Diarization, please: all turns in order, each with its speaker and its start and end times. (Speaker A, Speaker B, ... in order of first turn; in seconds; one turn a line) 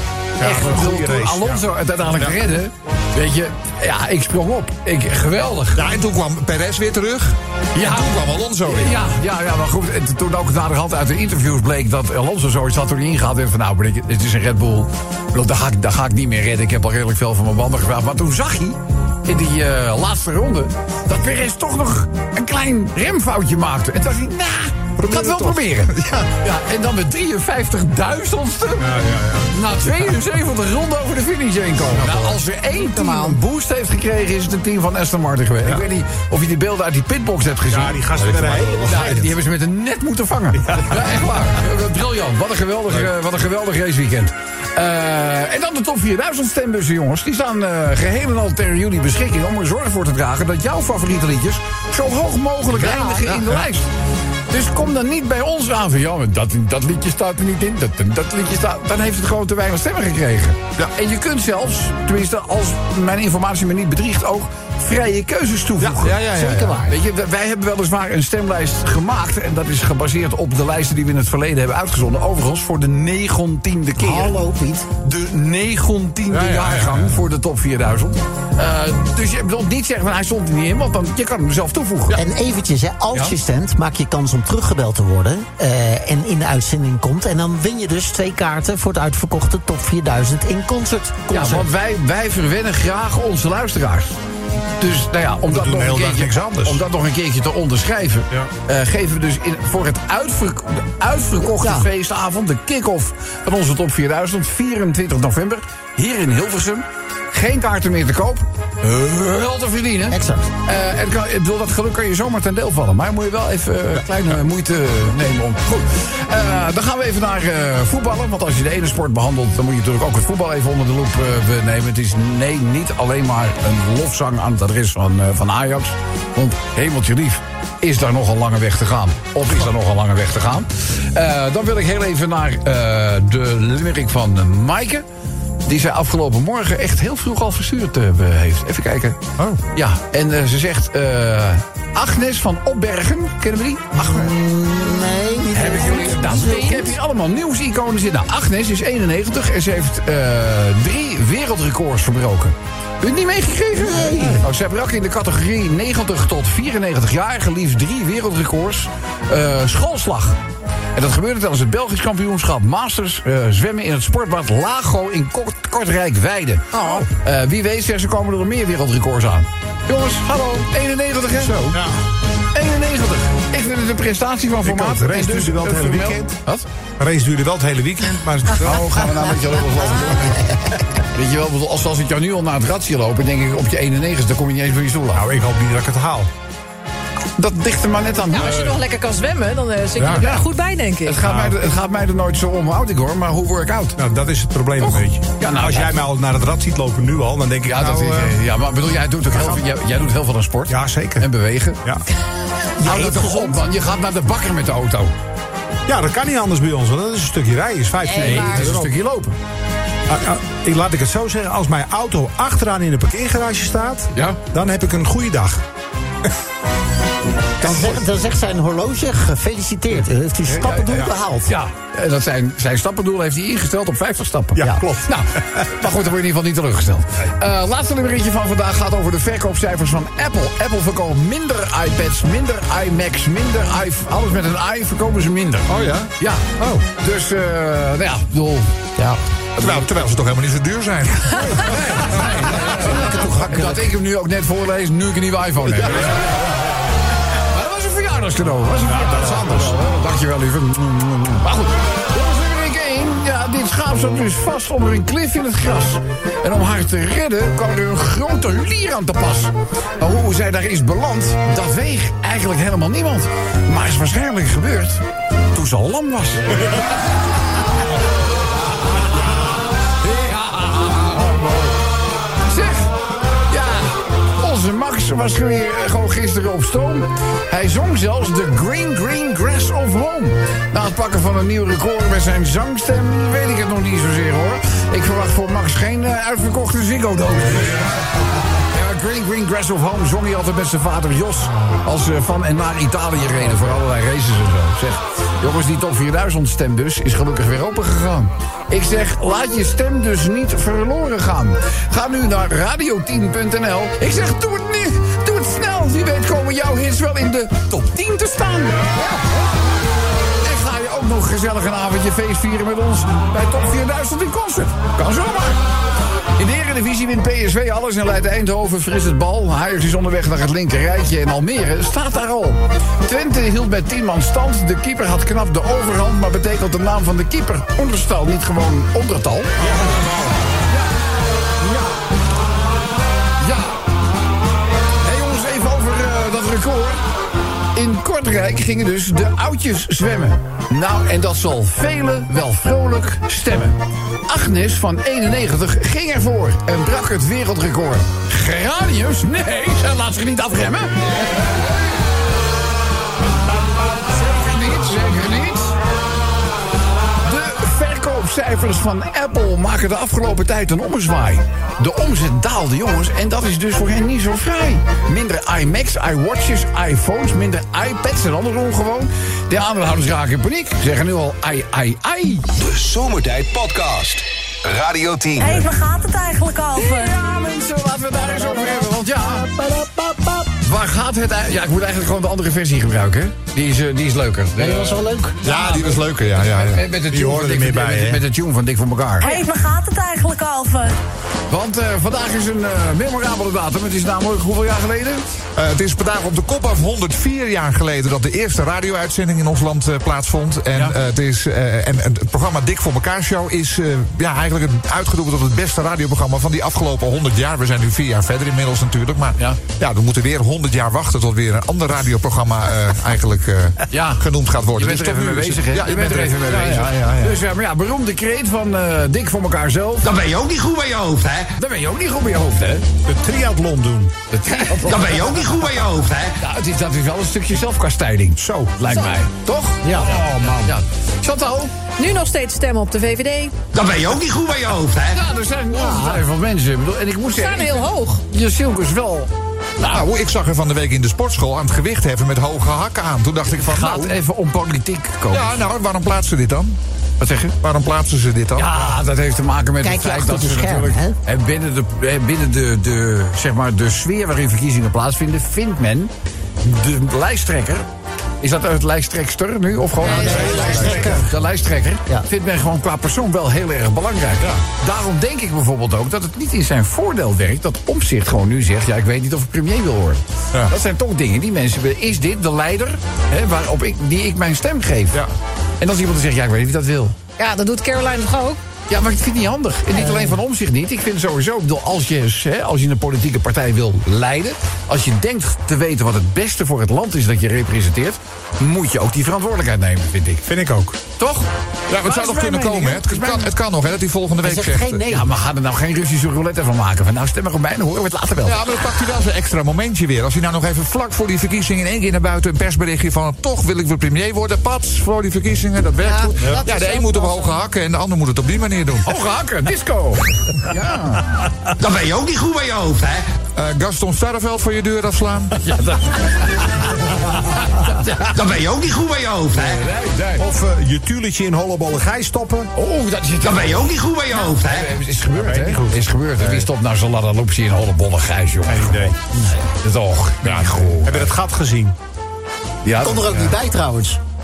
Speaker A: 0.4-1.6
Speaker B: 0.4-5.9
Speaker C: 5.7-9.0
Speaker B: 7.7-38.1
Speaker C: 25.0-26.2
Speaker A: 28.8-29.6
Speaker C: 31.9-32.2
Speaker A: 37.7-39.4
Speaker C: 38.2-38.9
Speaker B: 38.8-53.9
Speaker A: 40.5-41.2
Speaker D: 52.9-53.2
Speaker C: 53.2-53.6
Speaker B: 54.5-74.4
Speaker C: 65.8-66.9
Speaker E: 74.0-74.8
Speaker B: 75.0-82.2
Speaker C: 76.3-77.2
Speaker E: 82.1-91.7
Speaker B: 83.1-83.4
Speaker B: 91.3-94.2
Speaker B: 94.8-135.0
Speaker A: 95.5-96.8
Speaker E: 101.6-101.9
Speaker E: 110.1-110.5
Speaker B: 135.6-139.2
Speaker B: 139.7-144.2
Speaker E: 144.0-146.9
Speaker B: 145.5-160.4
Speaker D: 146.1-146.9
Speaker E: 153.8-154.5
Speaker B: 160.9-171.7
Speaker A: 166.7-167.1
Speaker C: 171.4-171.8
Speaker A: 171.7-172.0
Speaker B: 172.5-176.7
Speaker A: 174.6-176.4
Speaker A: 177.0-179.0
Speaker B: 178.5-185.2
Speaker A: 185.1-186.3
Speaker B: 187.4-188.8
Speaker D: 188.2-191.2
Speaker B: 190.0-190.5
Speaker B: 191.0-194.0
Speaker A: 191.2-191.5
Speaker A: 194.0-198.4
Speaker B: 194.8-195.9
Speaker B: 197.7-201.8
Speaker A: 200.7-201.3
Speaker B: 202.8-205.1
Speaker E: 202.8-203.5
Speaker A: 205.9-208.9
Speaker D: 208.0-208.7
Speaker B: 208.1-209.4
Speaker A: 210.1-215.6
Speaker B: 214.1-214.4
Speaker E: 217.6-221.5
Speaker A: 217.6-218.0
Speaker B: 220.6-238.8
Speaker A: 224.6-225.6
Speaker C: 235.7-236.8
Speaker B: 239.6-239.9
Speaker C: 239.6-242.5
Speaker B: 241.6-246.3
Speaker E: 242.7-243.8
Speaker B: 247.4-265.0
Speaker A: 248.8-249.8
Speaker B: 265.5-266.9
Speaker B: 270.0-271.6
Speaker B: 272.4-272.9
Speaker B: 273.5-287.9
Speaker B: 288.7-309.1
Speaker B: 310.4-315.6
Speaker B: 316.4-329.6
Speaker A: 329.6-330.3
Speaker B: 330.7-331.0
Speaker B: 331.6-331.9
Speaker B: 333.4-333.8
Speaker B: 335.0-337.0
Speaker B: 337.7-351.5
Speaker B: 354.0-355.8
Speaker B: 357.2-372.5
Speaker F: 372.6-375.7
Speaker G: 375.4-377.1
Speaker B: 376.7-379.5
Speaker E: 378.4-380.5
Speaker B: 380.6-389.4
Speaker E: 384.6-385.4
Speaker C: 385.4-386.8
Speaker A: 387.1-388.2
Speaker G: 389.2-390.9
Speaker B: 391.5-395.2
Speaker C: 395.6-417.4
Speaker B: 413.9-420.1
Speaker H: 420.0-421.5
Speaker B: 421.5-422.8
Speaker A: 423.0-424.1
Speaker B: 424.3-425.3
Speaker H: 424.8-426.4
Speaker B: 426.4-431.7
Speaker A: 428.4-428.7
Speaker D: 428.8-429.2
Speaker E: 429.8-430.1
Speaker A: 429.9-430.7
Speaker D: 431.9-433.5
Speaker H: 433.7-435.2
Speaker B: 435.1-440.0
Speaker E: 435.8-436.2
Speaker D: 437.3-438.2
Speaker C: 439.9-444.1
Speaker B: 443.5-445.6
Speaker C: 445.3-446.8
Speaker B: 447.2-447.5
Speaker C: 447.6-448.7
Speaker B: 448.5-456.1
Speaker E: 449.8-451.1
Speaker B: 456.6-457.9
Speaker B: 458.4-475.2
Speaker E: 460.0-461.3
Speaker A: 460.1-461.2
Speaker B: 475.8-477.1
Speaker D: 477.4-478.6
Speaker B: 478.9-490.4
Speaker A: 490.4-491.0
Speaker B: 491.2-491.5
Speaker C: 491.9-495.1
Speaker B: 492.0-493.5
Speaker E: 494.4-495.3
Speaker B: 495.1-498.6
Speaker C: 498.4-509.2
Speaker D: 506.0-507.5
Speaker B: 509.1-511.4
Speaker H: 511.8-513.3
Speaker C: 513.5-515.5
Speaker B: 515.6-518.2
Speaker H: 518.2-519.8
Speaker B: 519.5-520.5
Speaker A: 520.4-522.7
Speaker B: 522.7-523.9
Speaker H: 523.4-524.9
Speaker B: 524.6-531.3
Speaker A: 525.3-526.1
Speaker A: 528.6-529.1
Speaker C: 530.4-531.0
Speaker A: 530.6-532.0
Speaker B: 532.8-533.5
Speaker E: 533.0-534.2